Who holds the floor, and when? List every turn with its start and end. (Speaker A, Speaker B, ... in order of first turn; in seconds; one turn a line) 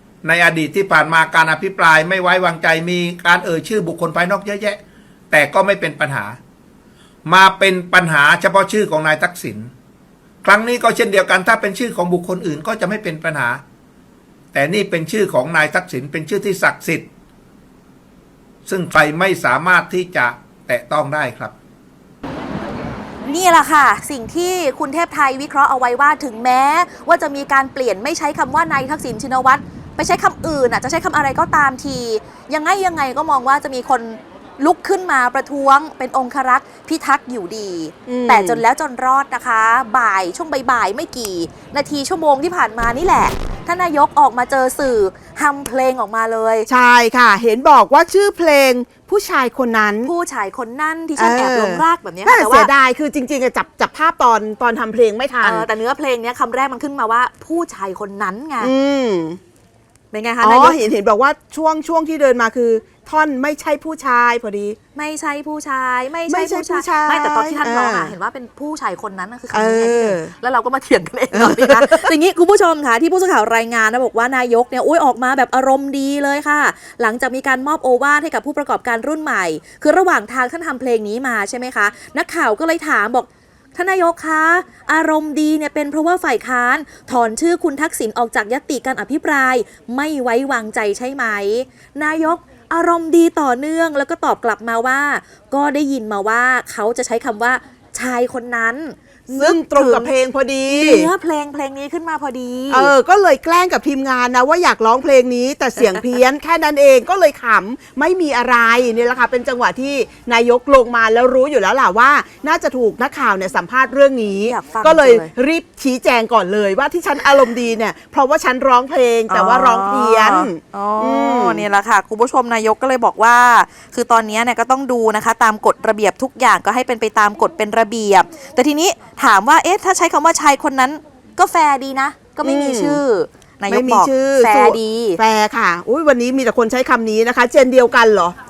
Speaker A: 0.2-4.8
Speaker A: 5.3-6.4
Speaker A: 7.3-9.7
Speaker A: 10.4-13.6
Speaker A: 14.5-17.1
Speaker A: 18.6-21.5
Speaker B: 23.2-46.7
Speaker C: 38.1-38.6
Speaker C: 46.7-50.1
Speaker B: 50.0-52.7
Speaker C: 51.2-55.7
Speaker B: 55.4-58.7
Speaker C: 58.6-59.4
Speaker B: 60.1-60.8
Speaker C: 60.4-64.8
Speaker B: 65.0-100.1
Speaker C: 66.3-68.2
Speaker C: 69.5-70.3
Speaker C: 71.3-72.1
Speaker C: 99.3-101.1
Speaker B: 100.7-102.9
Speaker C: 102.7-121.7
Speaker B: 114.5-115.3
Speaker B: 119.3-135.2
Speaker C: 132.4-133.0
Speaker C: 133.7-138.3